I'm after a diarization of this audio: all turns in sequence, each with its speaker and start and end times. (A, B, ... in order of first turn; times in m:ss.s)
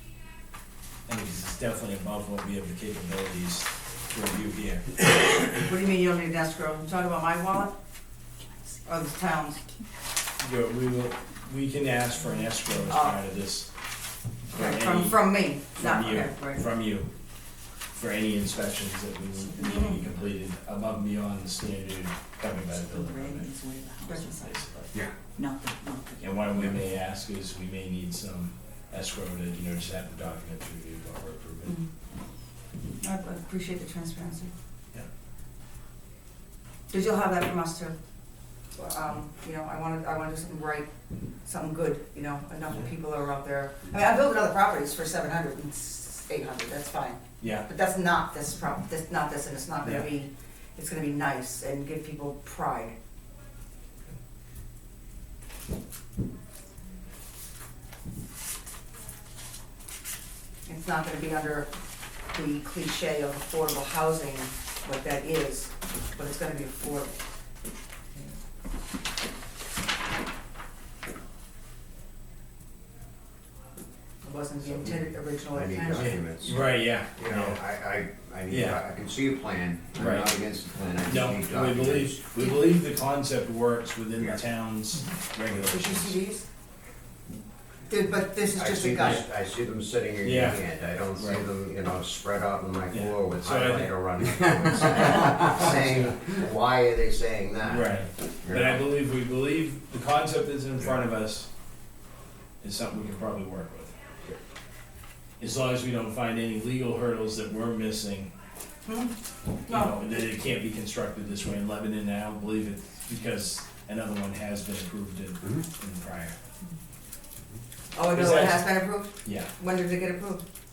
0:01.1-0:05.4 A
0:05.5-0:07.7 B
0:08.8-0:09.6 B
0:10.4-0:13.7 A
0:12.9-0:13.2 B
0:14.4-0:17.1 A
0:14.5-0:16.6 B
0:17.9-0:23.5 A
0:19.6-0:20.0 B
0:22.9-0:24.6 C
0:24.4-0:24.9 A
0:25.3-0:26.3 C
0:26.2-0:31.8 A
0:33.0-0:34.5 B
0:36.9-0:37.9 B
0:38.7-0:40.9 B
0:41.4-0:52.9 B
0:47.4-0:47.6 A
1:00.6-1:01.7 B
1:02.3-1:07.1 B
1:14.2-1:16.6 B
1:14.7-1:15.0 D
1:15.5-1:22.2 D
1:16.0-1:17.6 A
1:18.5-1:18.8 A
1:20.0-1:20.3 A
1:21.0-1:26.2 A
1:22.4-1:22.7 B
1:25.7-1:26.4 B
1:27.9-1:29.2 B
1:28.5-1:38.8 D
1:30.2-1:30.6 A
1:31.2-1:31.4 A
1:32.9-1:36.2 A
1:37.6-1:41.5 A
1:42.6-1:43.9 A
1:45.4-1:48.3 A
1:48.8-1:49.1 B
1:49.6-1:50.0 B
1:49.7-1:56.3 A
1:57.9-2:00.4 B
1:58.1-1:58.7 A
1:59.2-1:59.5 A